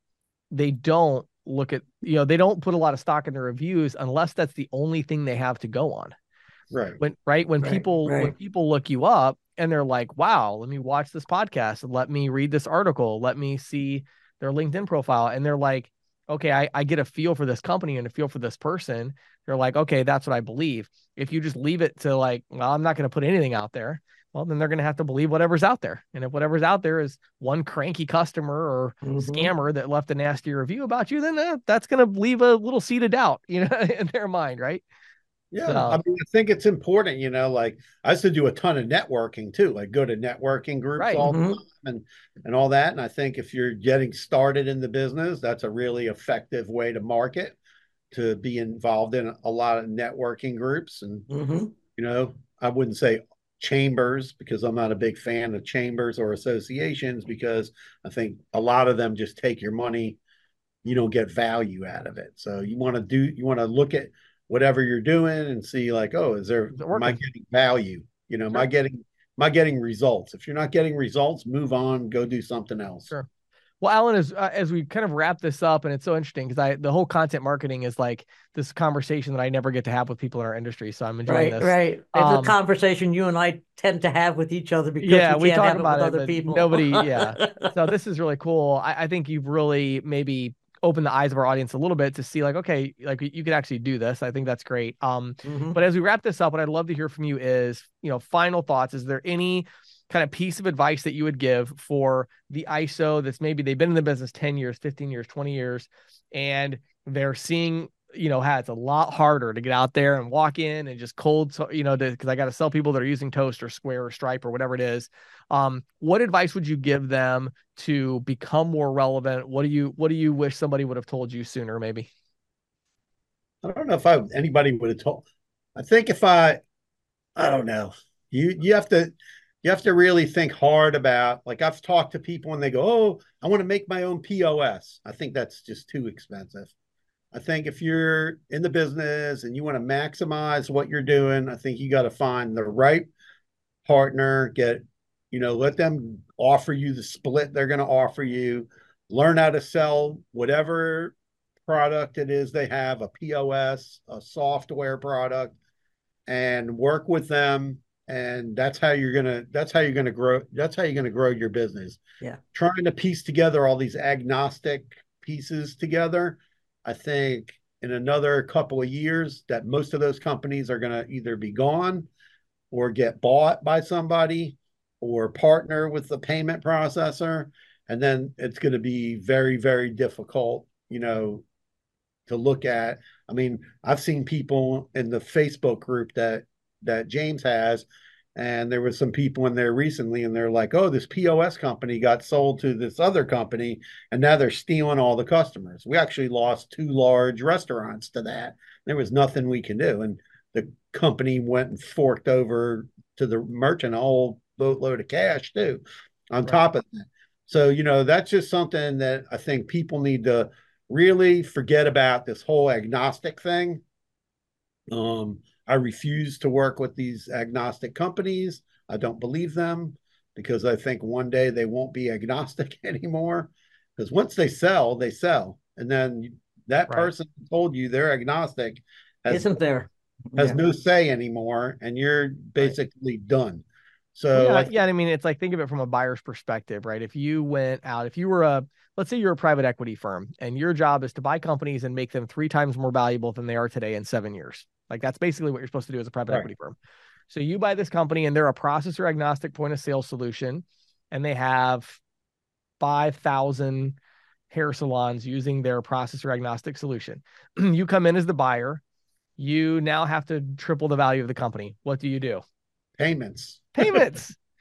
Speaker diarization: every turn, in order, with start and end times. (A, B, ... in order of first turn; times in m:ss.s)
0:00.5-0:06.1 A
0:06.7-0:07.0 B
0:07.0-0:34.8 A
0:07.6-0:08.3 C
0:29.0-0:29.5 C
0:35.5-0:47.6 B
0:35.6-0:36.0 A
0:41.0-0:41.3 A
0:41.2-0:41.6 C
0:48.1-0:51.2 B
0:51.3-0:51.7 C
0:52.0-1:00.2 B
1:00.8-1:13.1 B
1:06.7-1:07.2 A
1:13.8-1:22.5 A
1:21.3-1:27.7 C
1:25.0-2:02.1 A
1:35.4-1:35.8 C
2:03.6-2:05.2 B
2:05.8-2:06.6 B
2:07.4-2:09.1 B
2:09.6-2:16.7 B
2:17.3-2:23.1 B
2:23.8-2:35.5 B
2:36.3-2:42.0 B
2:42.5-2:52.1 B
2:52.7-3:01.4 B
3:02.3-3:33.8 B
3:34.9-3:49.6 B
3:49.3-3:50.6 C
3:50.4-3:53.6 B
3:54.1-3:54.7 B
3:54.3-4:06.8 A
4:07.3-4:12.0 A
4:12.8-4:14.0 A
4:14.5-4:18.8 A
4:19.4-4:22.4 A
4:23.0-4:24.1 B
4:23.8-4:24.4 A